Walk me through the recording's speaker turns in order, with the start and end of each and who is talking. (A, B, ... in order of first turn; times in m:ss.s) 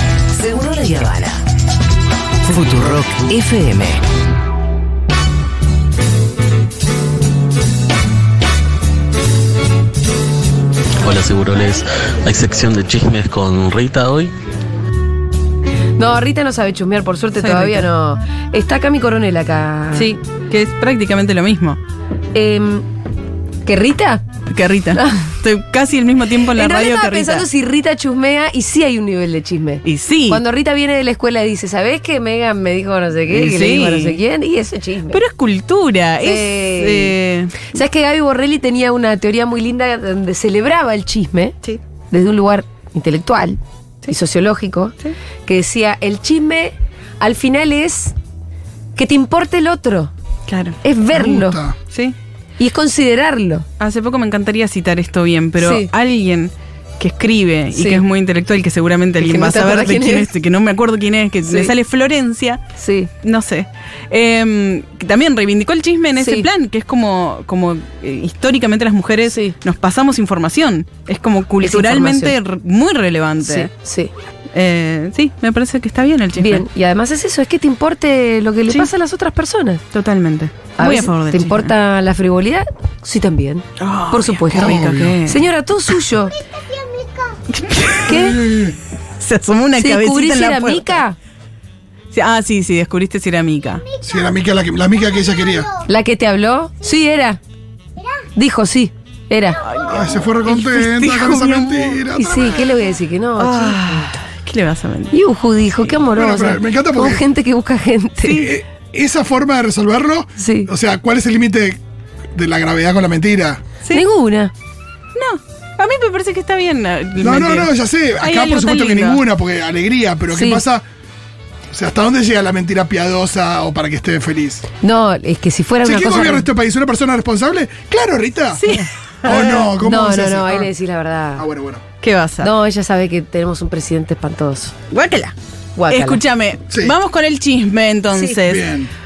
0:00.3-0:01.4 A
0:02.4-0:04.0 A
0:11.0-0:14.3 B
0:16.0-0:20.2 C
0:17.4-0:17.9 D
0:20.0-0:21.8 D
0:22.3-0:22.8 C
0:23.7-0:24.2 C
0:24.5-0:27.4 D
0:25.0-0:25.3 C
0:26.5-0:35.2 C
0:29.8-0:30.4 D
0:33.3-0:34.2 D
0:35.1-0:37.7 D
0:36.2-0:37.1 C
0:37.6-0:41.6 C
0:42.1-0:48.1 C
0:49.0-0:50.1 C
0:50.5-0:50.8 D
0:50.8-0:51.6 C
0:51.1-0:51.8 E
0:52.6-0:53.7 C
0:53.8-1:02.6 D
0:55.6-0:55.9 C
0:57.7-0:58.0 C
0:59.2-1:00.3 C
1:01.4-1:01.7 C
1:02.8-1:03.1 C
1:03.2-1:13.7 D
1:06.2-1:06.5 C
1:09.3-1:09.5 C
1:11.6-1:12.3 C
1:13.4-1:14.1 C
1:14.5-1:16.6 D
1:16.4-1:19.8 C
1:19.9-1:21.7 D
1:20.8-1:26.3 C
1:23.8-1:25.5 D
1:24.6-1:25.2 E
1:27.5-1:28.4 D
1:28.1-1:28.4 C
1:29.2-1:31.0 D
1:29.8-1:31.2 C
1:32.1-1:33.8 D
1:34.0-1:35.7 E
1:35.9-1:37.4 C
1:38.4-1:39.6 C
1:39.6-1:42.0 D
1:39.9-1:42.8 E
1:42.2-1:44.1 C
1:43.4-1:45.1 D
1:45.1-1:48.5 C
1:46.0-1:47.2 E
1:48.2-1:48.5 D
1:48.3-1:51.8 E
1:50.4-1:50.7 C
1:52.3-1:53.6 E
1:53.9-1:54.5 C
1:55.2-1:59.2 D
1:57.2-2:00.8 E
2:00.3-2:00.6 C
2:01.7-2:04.6 E
2:04.8-2:06.5 C
2:05.8-2:08.6 E
2:08.6-2:08.9 D
2:09.2-2:10.7 E
2:09.3-2:11.4 C
2:11.4-2:11.8 E
2:12.0-2:12.5 D
2:12.4-2:14.7 C
2:14.9-2:15.4 D
2:15.8-2:16.2 C
2:15.9-2:18.6 D
2:18.4-2:18.9 E